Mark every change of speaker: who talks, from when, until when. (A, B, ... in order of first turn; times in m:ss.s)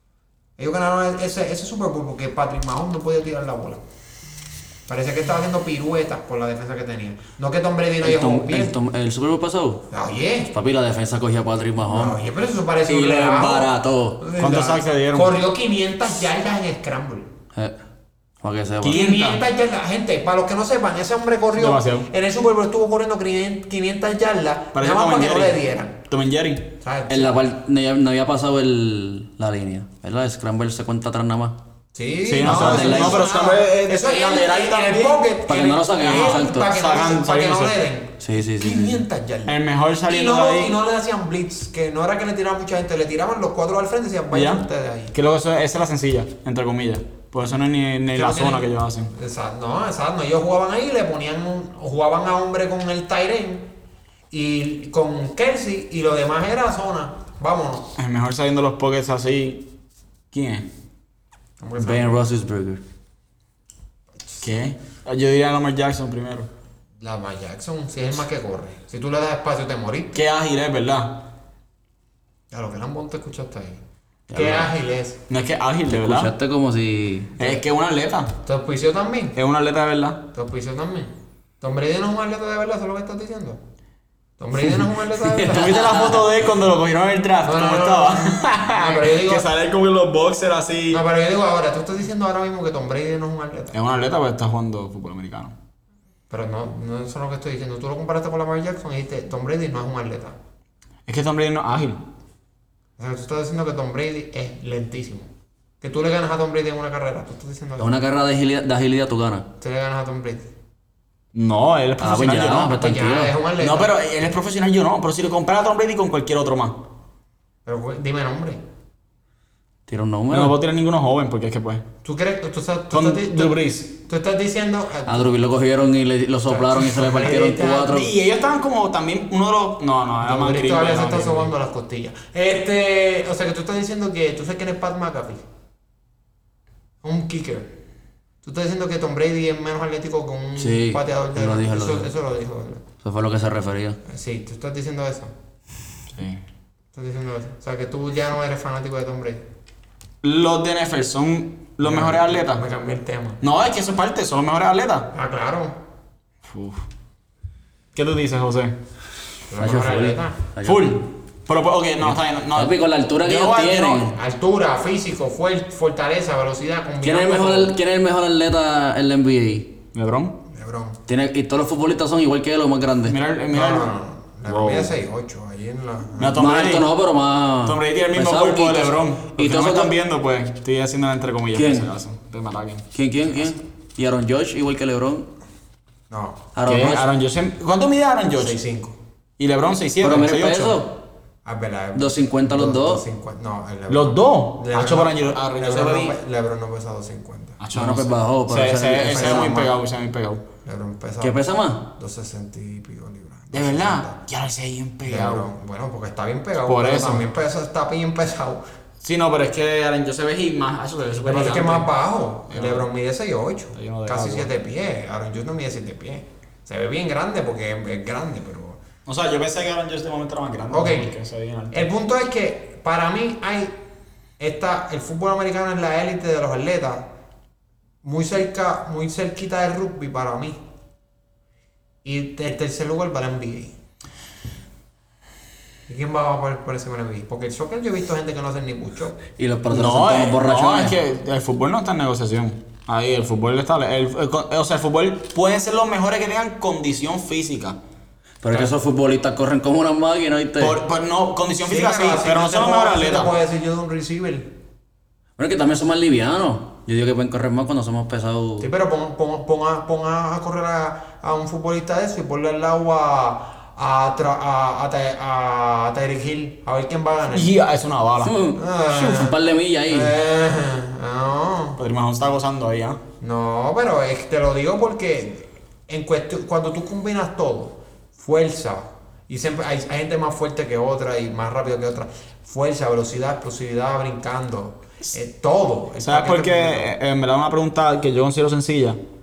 0:00.6-0:03.8 A
0:04.9-0:08.7 A
0:08.0-0:09.8 B
0:09.9-0:10.5 A
0:10.5-0:12.2 B
0:11.8-0:17.3 A
0:12.9-0:14.2 B
0:14.4-0:15.3 C
0:18.4-0:19.0 B
0:18.8-0:19.4 C
0:18.9-0:26.0 A
0:21.6-0:22.1 C
0:24.7-0:26.7 C
0:26.8-0:27.3 A
0:27.1-0:31.6 B
0:31.9-0:45.1 A
0:32.3-0:35.2 C
0:32.4-0:33.3 B
0:35.5-0:36.7 B
0:36.0-0:37.8 C
0:38.2-0:39.0 B
0:39.5-0:40.8 C
0:44.3-0:49.1 C
0:48.1-0:53.7 A
0:54.3-0:57.9 A
0:58.0-0:59.6 C
1:00.3-1:00.7 C
1:01.6-1:02.1 A
1:01.8-1:02.8 B
1:04.4-1:06.5 C
1:07.0-1:10.2 A
1:10.1-1:11.2 C
1:12.5-1:13.8 A
1:14.3-1:14.7 B
1:14.3-1:15.2 A
1:15.3-1:16.3 C
1:15.9-1:17.3 B
1:17.4-1:18.3 C
1:18.4-1:19.4 A
1:19.3-1:20.2 C
1:20.3-1:23.6 A
1:24.4-1:25.9 A
1:25.4-1:31.0 C
1:25.7-1:26.2 B
1:27.4-1:29.5 A
1:30.9-1:33.8 A
1:33.7-1:35.5 C
1:36.3-1:40.4 A
1:41.1-1:42.0 C
1:43.0-1:45.3 A
1:45.8-1:47.9 A
1:47.8-1:49.4 B
1:49.6-1:50.4 A
1:51.3-1:52.8 C
1:52.0-1:53.3 B
1:52.7-1:53.9 A
1:53.6-1:56.8 C
1:57.6-1:58.6 A
1:59.9-2:00.5 B
2:00.3-2:01.8 C
2:02.0-2:05.3 A
2:02.9-2:03.9 C
2:05.1-2:08.1 B
2:06.4-2:08.0 A
2:07.9-2:11.5 C
2:10.2-2:15.4 A
2:17.0-2:17.7 A
2:18.4-2:22.8 A
2:20.6-2:22.1 B
2:23.0-2:24.0 B
2:24.0-2:25.3 A
2:26.1-2:26.4 C
2:26.9-2:29.4 A
2:30.2-2:32.6 C
2:31.8-2:33.4 A
2:33.4-2:35.1 C
2:35.1-2:35.8 A
2:36.5-2:36.8 C
2:37.9-2:38.7 C
2:39.5-2:40.4 A
2:39.6-2:41.0 B
2:40.6-2:44.1 C
2:42.0-2:44.2 B
2:44.1-2:47.7 A
2:47.0-2:49.7 B
2:49.9-2:50.4 C
2:50.5-2:51.0 A
2:51.1-2:53.2 B
2:53.0-2:53.9 C
2:53.5-2:56.5 A
2:54.5-2:54.9 C
2:56.2-2:56.9 C
2:56.4-2:59.9 B
2:57.6-3:02.8 C
3:01.5-3:01.9 B
3:02.9-3:05.3 B
3:06.1-3:06.4 A
3:06.5-3:07.1 B
3:06.6-3:08.6 C
3:08.4-3:09.0 A
3:09.4-3:10.8 C
3:10.0-3:11.0 B
3:11.4-3:17.6 A
3:11.9-3:13.0 B
3:13.9-3:16.2 C
3:17.6-3:20.4 C
3:17.7-3:19.5 B
3:19.1-3:19.8 A
3:20.6-3:24.2 A
3:21.2-3:21.9 B
3:23.5-3:25.5 C
3:25.0-3:28.6 A
3:26.6-3:27.2 C
3:29.0-3:31.9 C
3:31.2-3:38.8 A
3:32.5-3:32.9 C
3:33.7-3:34.5 C
3:39.0-3:41.8 C
3:40.7-3:41.1 A
3:41.7-3:43.8 A
3:44.4-3:47.1 A
3:48.0-3:50.6 A
3:52.0-3:53.8 A
3:55.9-3:59.2 A
3:59.4-4:01.0 B
3:59.7-4:07.8 C
4:08.4-4:10.8 B
4:10.6-4:13.3 C
4:11.6-4:14.5 A
4:15.4-4:18.7 B
4:18.6-4:27.5 A
4:27.3-4:28.4 C
4:28.2-4:30.1 B
4:28.5-4:31.8 A
4:31.8-4:33.0 C
4:33.2-4:46.9 A
4:46.0-4:49.0 C